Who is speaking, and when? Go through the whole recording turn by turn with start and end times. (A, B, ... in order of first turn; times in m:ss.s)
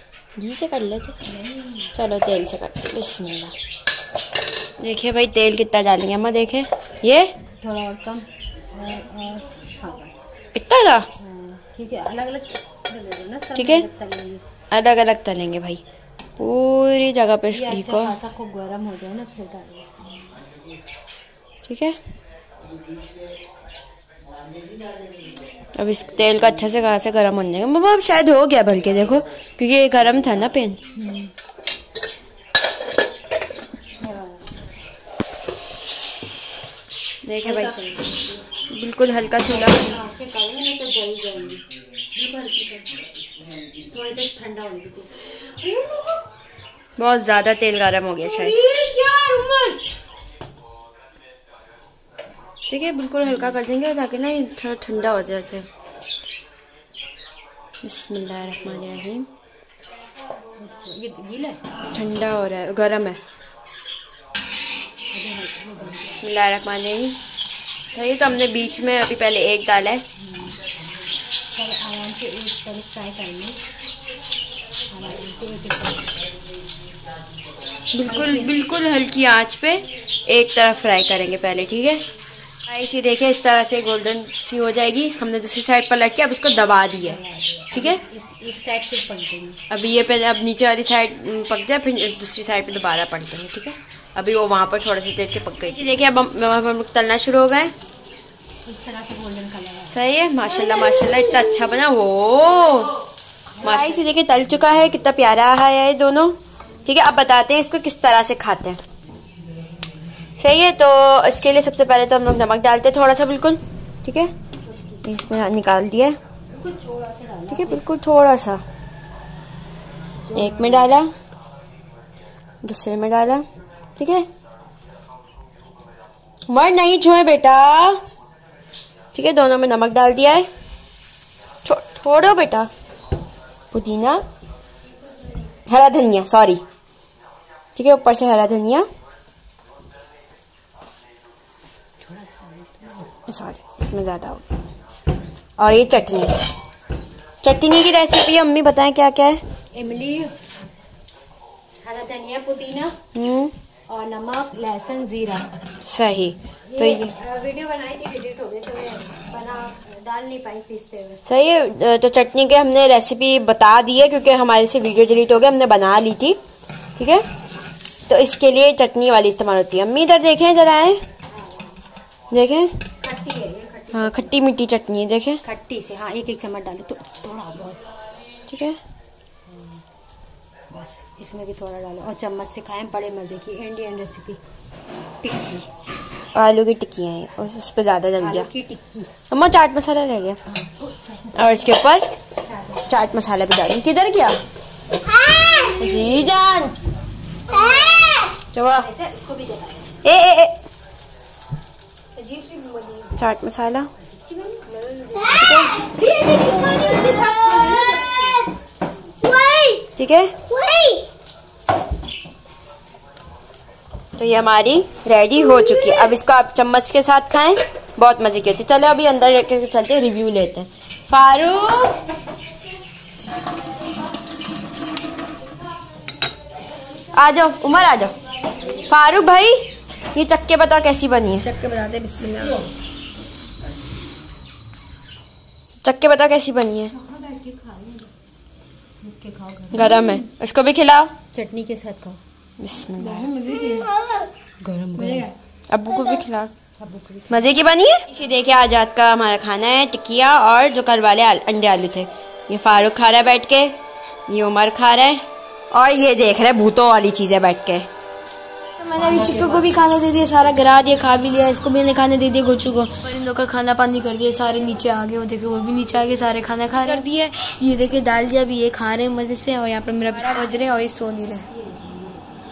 0:00.4-0:01.2 A
0:01.2-0:01.9 B
0:01.9-0:03.5 A
0:04.8-0:07.3 A
0:07.6-0:10.2 B
0:10.5-0:11.1 A
0:11.2-0:14.4 B
0:13.5-0:13.9 A
0:14.7-0:15.8 A
0:16.4-0:18.2 A
0:17.5-0:19.9 B
0:21.7-0:22.0 A
0:25.7-0:30.8 A
0:30.9-0:31.3 B
0:34.0-0:34.4 B
0:37.2-0:37.7 A
0:37.4-0:38.4 B
0:38.7-0:40.0 A
0:39.4-0:42.9 B
0:43.8-0:46.2 B
0:47.0-0:48.6 A
0:48.2-0:49.8 B
0:52.7-0:55.7 A
0:57.8-0:59.3 A
1:00.5-1:01.6 B
1:01.9-1:03.2 A
1:05.1-1:06.1 B
1:06.0-1:07.2 A
1:07.9-1:10.0 A
1:10.2-1:10.6 B
1:11.5-1:13.6 B
1:14.9-1:16.1 B
1:17.9-1:22.0 A
1:18.0-1:18.5 B
1:22.7-1:27.2 A
1:27.1-1:29.6 B
1:27.7-1:28.0 A
1:29.7-1:37.7 A
1:38.6-1:39.9 B
1:39.9-1:42.9 A
1:43.6-1:48.8 A
1:50.4-1:54.3 A
1:54.6-1:55.0 B
1:55.0-1:56.2 A
1:56.5-1:57.8 B
1:57.5-1:58.6 A
2:00.2-2:00.7 B
2:00.3-2:01.1 A
2:02.6-2:03.4 A
2:04.0-2:04.3 A
2:06.5-2:08.0 A
2:09.1-2:10.5 A
2:11.6-2:12.7 A
2:13.7-2:14.2 A
2:15.6-2:16.6 A
2:17.8-2:18.8 A
2:22.0-2:23.1 B
2:23.3-2:24.6 A
2:25.6-2:26.4 A
2:27.4-2:29.4 A
2:29.7-2:30.3 B
2:31.8-2:33.0 B
2:33.1-2:33.5 A
2:33.9-2:35.5 B
2:35.8-2:37.1 A
2:36.7-2:41.2 B
2:41.2-2:46.4 A
2:47.0-2:47.2 A
2:48.1-2:51.0 A
2:51.3-2:51.8 B
2:52.3-2:52.7 A
2:53.0-2:54.3 B
2:53.9-2:55.4 A
2:55.4-2:57.8 B
2:58.5-2:58.8 A
2:59.5-2:59.8 B
3:00.7-3:04.4 B
3:05.2-3:05.7 B
3:06.3-3:08.5 A
3:08.2-3:09.1 B
3:09.3-3:10.4 A
3:10.4-3:11.7 B
3:11.3-3:12.0 A
3:12.4-3:12.8 B
3:12.8-3:14.4 A
3:15.4-3:16.1 C
3:15.5-3:15.8 B
3:15.8-3:16.7 A
3:17.5-3:18.1 B
3:17.5-3:18.2 C
3:18.5-3:18.9 A
3:18.8-3:20.0 B
3:20.0-3:20.5 A
3:22.2-3:23.2 C
3:23.2-3:23.9 A
3:24.0-3:28.5 B
3:25.3-3:25.7 C
3:25.4-3:25.8 A
3:29.2-3:29.8 B
3:30.0-3:30.3 A
3:30.5-3:30.9 C
3:30.7-3:31.0 B
3:34.2-3:42.0 A
3:47.1-3:51.4 A
3:51.4-3:52.6 C
3:55.8-3:56.9 A
3:56.9-3:58.1 B
3:59.0-3:59.9 B
3:59.7-4:01.1 A
3:59.9-4:00.2 C
4:01.3-4:02.2 B
4:02.6-4:03.3 A
4:03.0-4:04.2 C
4:04.6-4:05.3 B
4:04.9-4:05.3 C
4:05.7-4:06.5 A
4:06.8-4:07.4 B
4:07.3-4:17.9 A
4:18.8-4:31.5 C
4:31.5-4:32.2 B